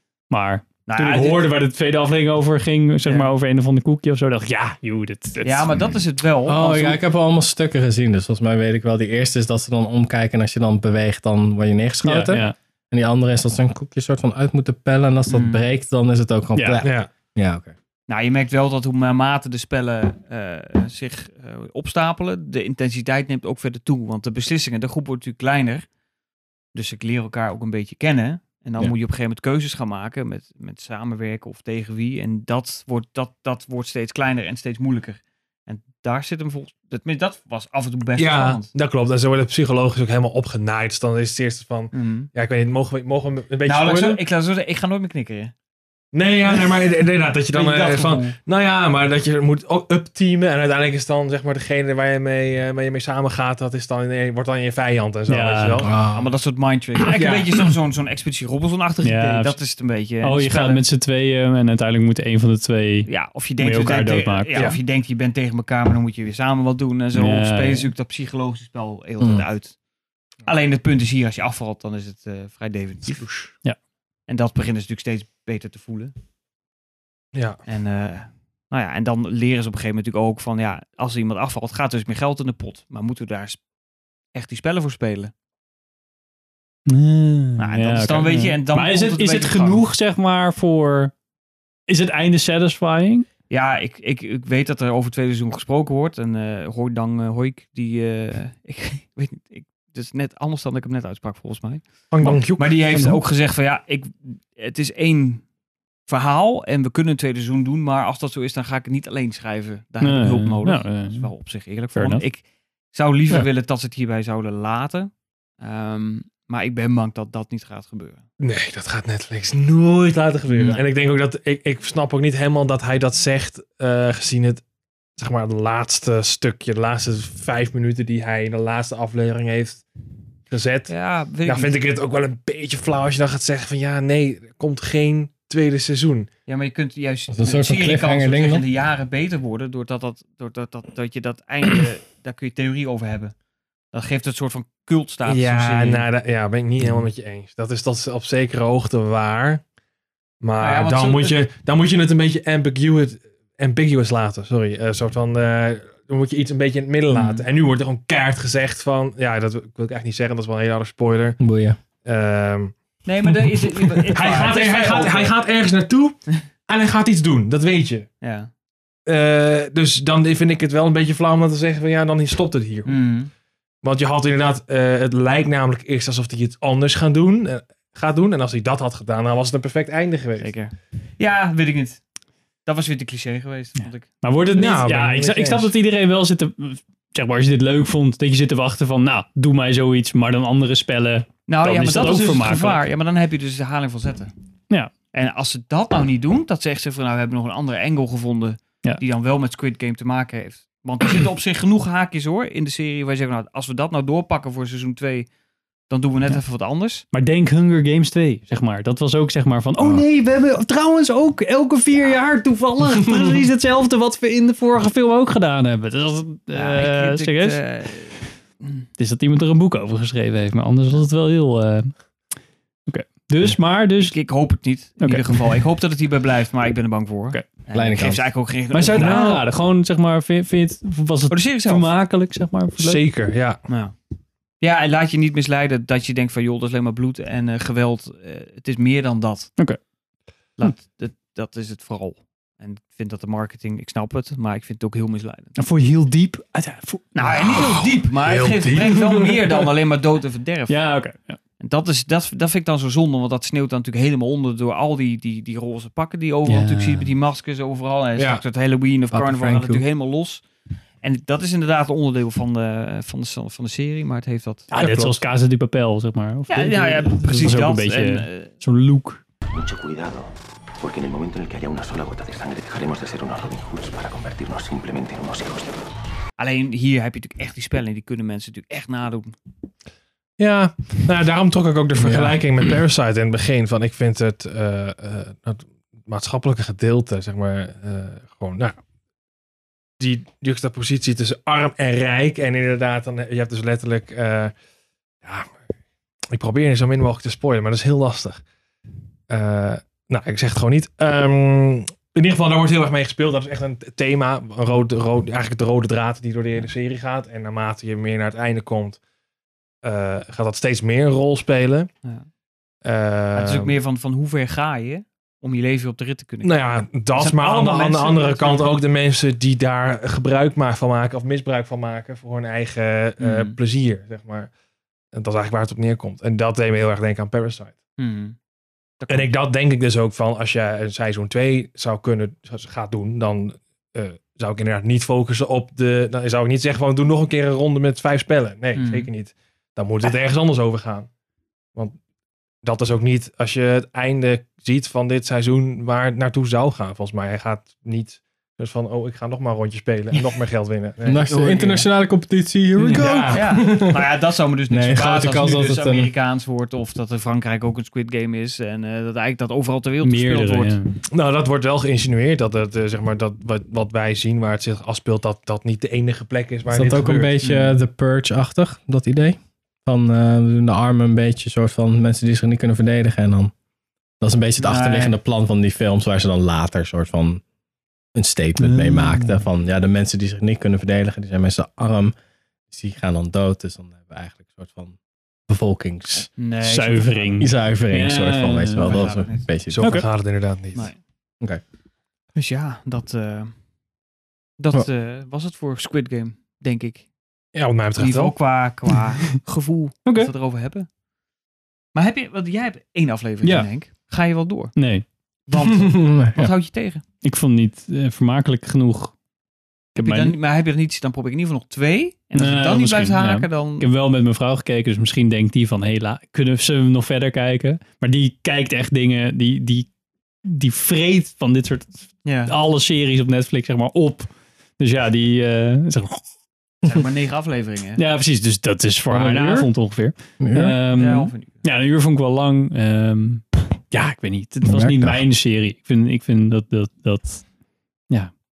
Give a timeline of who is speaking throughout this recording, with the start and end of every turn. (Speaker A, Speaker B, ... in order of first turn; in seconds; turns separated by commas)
Speaker A: 0.3-5.8, Speaker B: 0.9-1.5, Speaker B: 3.0-3.3, Speaker B: 5.4-7.0, Speaker C: 6.5-17.7, Speaker A: 12.0-12.5, Speaker B: 15.3-15.7, Speaker A: 16.6-16.8, Speaker D: 16.8-17.1, Speaker B: 18.1-25.9, Speaker B: 26.7-38.7, Speaker D: 38.1-44.2, Speaker B: 41.9-42.3, Speaker B: 43.6-45.5, Speaker D: 46.1-56.0, Speaker B: 47.5-48.4, Speaker A: 55.3-55.9, Speaker C: 55.8-56.3, Speaker B: 56.1-60.8, Speaker D: 57.1-57.5, Speaker A: 59.0-59.6, Speaker A: 60.2-64.8, Speaker B: 63.0-69.7, Speaker D: 64.5-64.8, Speaker A: 67.1-67.9, Speaker B: 70.4-73.3, Speaker D: 73.2-73.5, Speaker B: 74.3-76.1, Speaker D: 77.3-77.6, Speaker B: 77.7-83.6, Speaker B: 84.3-85.3, Speaker A: 86.9-91.1, Speaker B: 87.6-89.9, Speaker A: 91.9-93.3, Speaker B: 93.5-105.4, Speaker D: 102.1-102.7, Speaker A: 103.0-103.2, Speaker B: 106.1-112.4, Speaker A: 110.0-111.3, Speaker A: 111.9-112.2, Speaker B: 112.9-118.2, Speaker D: 118.4-124.6, Speaker B: 120.5-120.8, Speaker D: 125.2-129.8, Speaker D: 130.5-130.9, Speaker B: 130.9-131.7, Speaker D: 131.4-136.3, Speaker B: 136.5-143.3, Speaker C: 137.3-138.6, Speaker B: 143.9-146.1, Speaker D: 145.2-149.6, Speaker B: 146.8-147.1, Speaker D: 150.4-161.4, Speaker B: 150.6-151.4, Speaker B: 157.1-157.5, Speaker C: 161.4-161.8, Speaker D: 162.0-162.7, Speaker B: 163.0-165.4, Speaker D: 163.9-168.1, Speaker B: 168.2-168.5, Speaker D: 169.1-173.0, Speaker B: 172.8-173.3, Speaker D: 173.8-180.5, Speaker B: 180.4-182.0, Speaker B: 182.7-184.1, Speaker A: 183.8-192.8, Speaker D: 184.5-185.7, Speaker B: 191.5-194.3, Speaker B: 195.1-205.3, Speaker B: 205.9-207.1, Speaker A: 207.1-217.6, Speaker B: 216.5-218.8, Speaker A: 219.0-221.9, Speaker A: 222.9-224.1, Speaker B: 224.0-229.4, Speaker A: 225.0-225.5, Speaker C: 227.7-228.3, Speaker A: 228.7-233.0, Speaker D: 229.0-229.4, Speaker B: 231.3-231.9, Speaker D: 232.8-233.6, Speaker B: 233.7-233.9, Speaker B: 234.6-239.6, Speaker B: 240.6-245.5, Speaker A: 245.6-247.2, Speaker B: 247.1-250.8, Speaker D: 247.2-249.7, Speaker A: 250.7-251.4, Speaker B: 251.6-260.4, Speaker A: 256.4-257.1, Speaker D: 258.1-258.4, Speaker C: 259.1-259.8, Speaker B: 261.0-264.7, Speaker A: 264.7-269.2, Speaker D: 264.8-265.2, Speaker B: 266.5-268.5, Speaker E: 269.5-275.8, Speaker B: 276.4-279.3, Speaker D: 280.4-288.8, Speaker C: 282.0-282.4, Speaker D: 290.0-294.5, Speaker D: 295.2-295.5, Speaker D: 296.3-298.4, Speaker D: 299.3-309.0, Speaker D: 309.8-311.9, Speaker D: 312.8-313.8, Speaker B: 313.3-316.5, Speaker D: 316.4-324.5, Speaker B: 317.1-318.8, Speaker B: 323.2-323.6, Speaker D: 325.1-327.8, Speaker B: 328.0-328.4, Speaker B: 329.0-329.3, Speaker D: 329.1-341.1, Speaker B: 338.7-339.1, Speaker D: 342.6-351.9, Speaker C: 351.0-354.1, Speaker D: 352.9-353.5, Speaker B: 353.0-360.8, Speaker C: 354.7-356.1, Speaker A: 360.0-361.0, Speaker D: 361.1-367.4, Speaker C: 366.7-373.5, Speaker B: 367.4-367.8, Speaker C: 374.2-377.4, Speaker B: 374.6-375.2, Speaker C: 378.1-382.1, Speaker A: 378.6-379.4, Speaker C: 382.7-384.9, Speaker C: 385.5-386.3, Speaker B: 386.4-387.4, Speaker A: 386.6-389.0, Speaker C: 387.4-389.9, Speaker B: 388.8-389.5, Speaker D: 389.7-390.9, Speaker A: 389.8-390.0, Speaker B: 392.4-393.5, Speaker B: 394.6-397.0, Speaker D: 397.5-398.3, Speaker B: 397.9-400.9, Speaker A: 400.1-400.3, Speaker B: 401.9-404.8, Speaker A: 403.4-403.7, Speaker A: 404.8-405.0, Speaker B: 405.5-407.0, Speaker C: 405.6-406.5, Speaker A: 407.2-409.1, Speaker A: 409.9-410.4, Speaker B: 410.0-413.9, Speaker A: 412.3-419.9, Speaker A: 420.4-426.2, Speaker B: 422.2-422.5, Speaker B: 426.8-428.0, Speaker A: 427.9-437.4, Speaker B: 429.1-429.7, Speaker C: 430.4-430.8, Speaker B: 430.9-431.7, Speaker C: 434.6-435.2